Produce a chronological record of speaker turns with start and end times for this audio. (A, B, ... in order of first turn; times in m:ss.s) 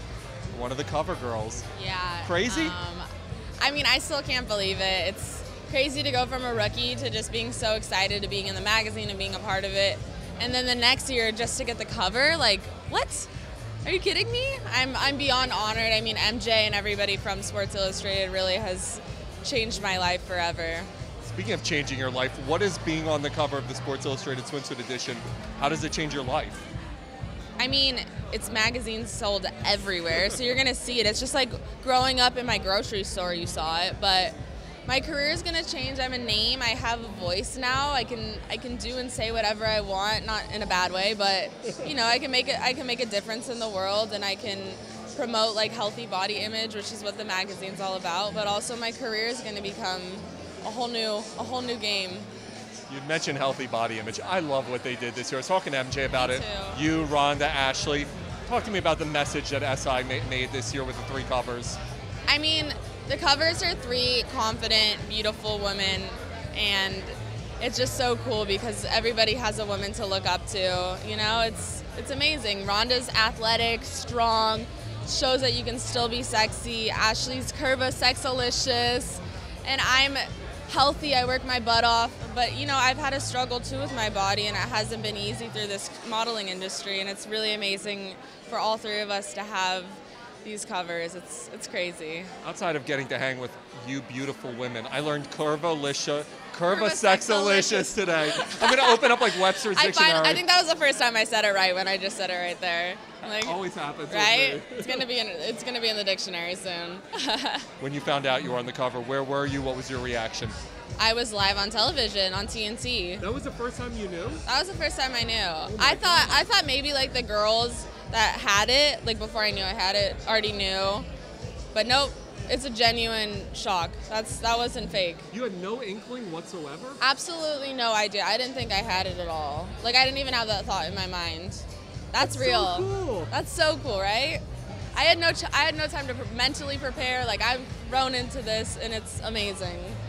0:00.5-0:01.7 A
0:01.8-0:03.1 B
0:02.2-0:02.8 A
0:03.6-0:13.3 B
0:13.8-0:20.9 B
0:21.2-0:26.6 A
0:27.6-0:52.3 B
0:52.9-1:01.8 A
0:56.2-0:56.8 B
1:02.3-1:32.3 B
1:32.4-1:40.4 A
1:36.7-1:43.6 B
1:43.3-1:45.1 A
1:44.1-1:47.7 B
1:47.8-1:50.6 A
1:51.0-1:53.3 B
1:53.2-1:54.4 A
1:54.5-2:01.1 B
1:55.6-1:56.5 A
2:01.7-2:05.3 B
2:05.3-2:07.0 A
2:07.0-2:14.4 B
2:12.2-2:13.3 A
2:15.0-2:20.0 B